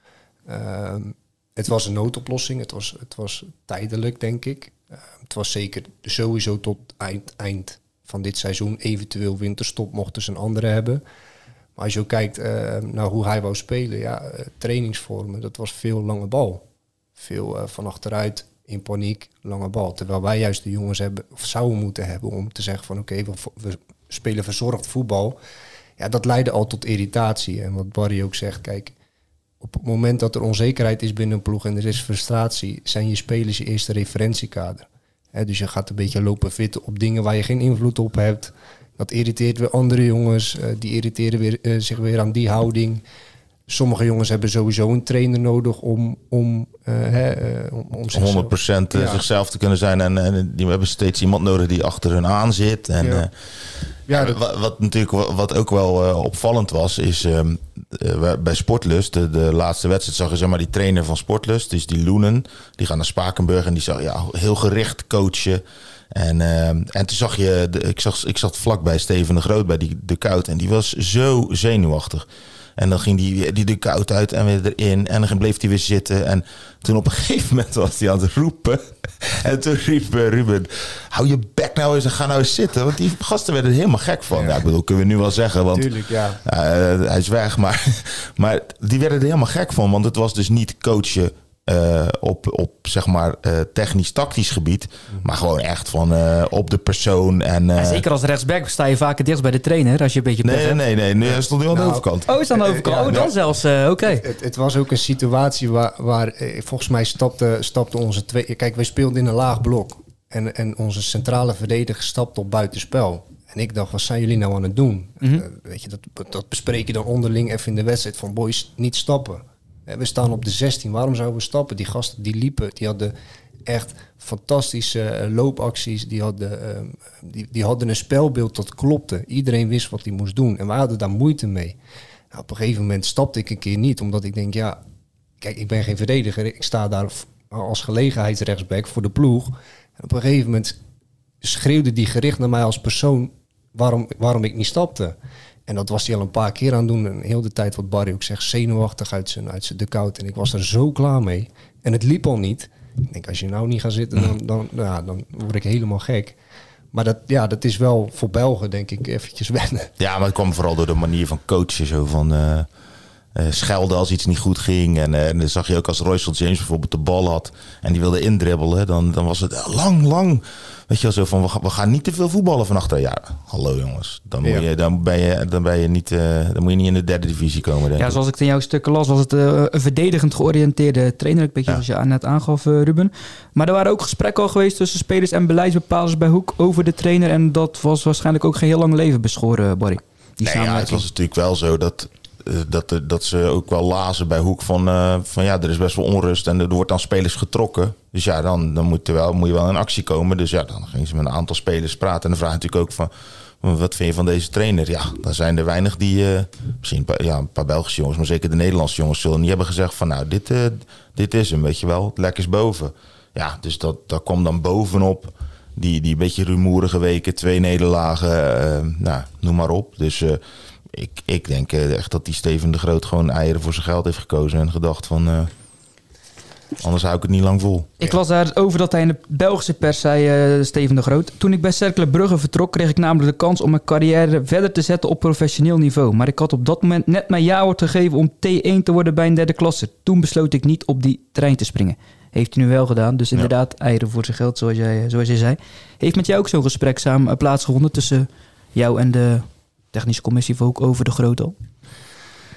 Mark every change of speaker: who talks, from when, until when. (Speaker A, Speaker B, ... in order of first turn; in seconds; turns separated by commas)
Speaker A: 0.5-11.0, Speaker A: 11.8-16.6, Speaker A: 17.2-25.4, Speaker A: 26.0-28.9, Speaker A: 29.6-43.0, Speaker A: 43.7-49.2, Speaker B: 48.1-53.3, Speaker A: 53.0-53.3, Speaker A: 54.1-54.4, Speaker B: 54.1-98.0, Speaker A: 84.3-84.6, Speaker A: 85.8-86.4, Speaker C: 97.8-100.8, Speaker B: 100.4-102.3, Speaker A: 101.7-103.3, Speaker C: 102.3-104.2, Speaker A: 104.0-123.1, Speaker A: 123.7-131.8, Speaker A: 132.3-134.8, Speaker A: 135.4-140.8, Speaker A: 141.4-145.2, Speaker A: 145.7-156.4, Speaker A: 156.9-159.9, Speaker B: 160.0-162.7, Speaker B: 163.3-178.2, Speaker C: 178.0-191.0, Speaker B: 190.4-220.4, Speaker B: 220.9-225.5, Speaker B: 226.8-227.9, Speaker C: 228.0-251.6